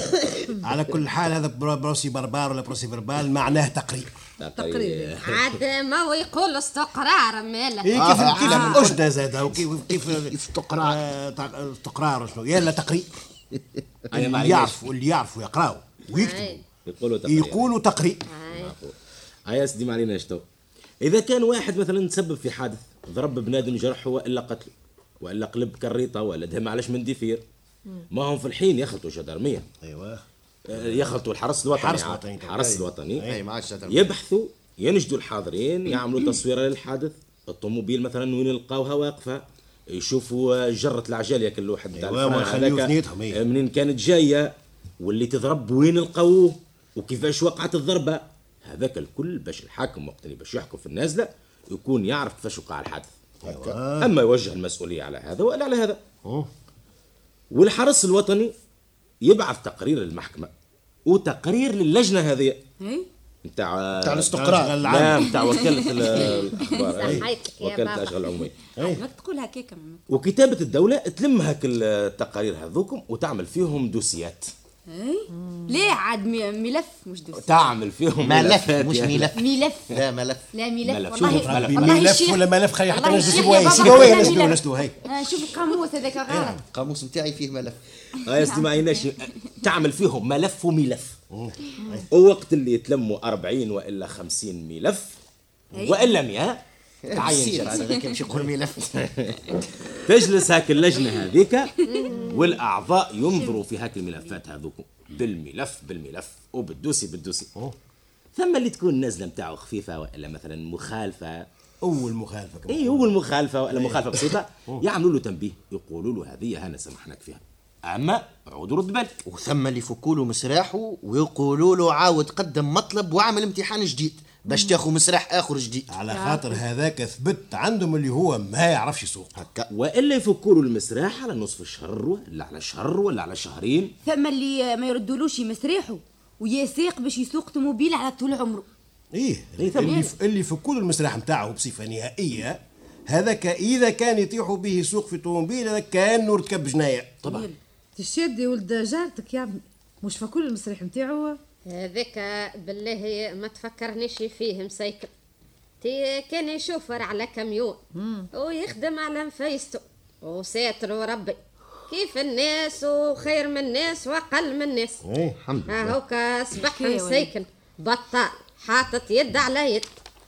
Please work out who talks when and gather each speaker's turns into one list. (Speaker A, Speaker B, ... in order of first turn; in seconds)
Speaker A: 0.6-4.3, 7.8-13.2, 14.1-16.6, 17.3-18.2, 29.8-31.1, 31.7-33.4, 41.9-43.4, 53.4-54.1, 64.3-65.4, 67.0-67.2, 68.8-69.0, 81.2-85.0, 86.2-86.6, 91.3-92.1, 111.8-113.1, 113.7-114.8, 125.9-129.4, 139.1-147.4, 165.0-165.4
Speaker B: 4.4-5.6, 14.1-14.8, 16.9-17.7, 18.5-18.9, 19.5-20.4, 21.0-27.4, 28.1-29.7, 30.7-33.3, 33.9-53.1, 54.0-56.0, 57.5-58.5, 59.2-60.5, 61.1-62.6, 63.4-68.5, 70.1-74.5, 77.3-79.3, 80.8-82.1, 88.1-91.2, 92.1-95.2, 95.8-98.0, 98.9-99.3, 100.0-101.7, 102.2-107.5, 108.3-111.5, 112.7-119.2, 129.7-133.9, 139.6-140.1
Speaker C: 4.5-5.2, 75.3-75.7, 148.0-151.4, 157.9-158.3
Speaker D: 5.2-7.9, 16.1-16.6, 18.3-18.7, 67.0-68.2, 83.2-84.3, 101.9-102.4, 151.7-155.1, 155.8-157.8, 158.3-161.4, 161.9-165.0, 165.7-169.9
Speaker E: 7.9-9.0, 9.5-11.0, 33.2-34.1, 53.4-53.8, 64.0-64.8, 78.2-80.5, 86.6-87.8, 97.1-98.9, 119.2-125.9, 129.4-129.7, 165.4-165.9
Speaker F: 62.8-63.0, 65.4-66.7, 68.8-70.0, 74.9-77.7, 79.3-79.9, 80.5-86.6, 88.3-89.1, 95.7-96.1, 101.8-102.1, 134.1-138.7, 139.8-140.1, 147.2-147.6, 166.6-167.3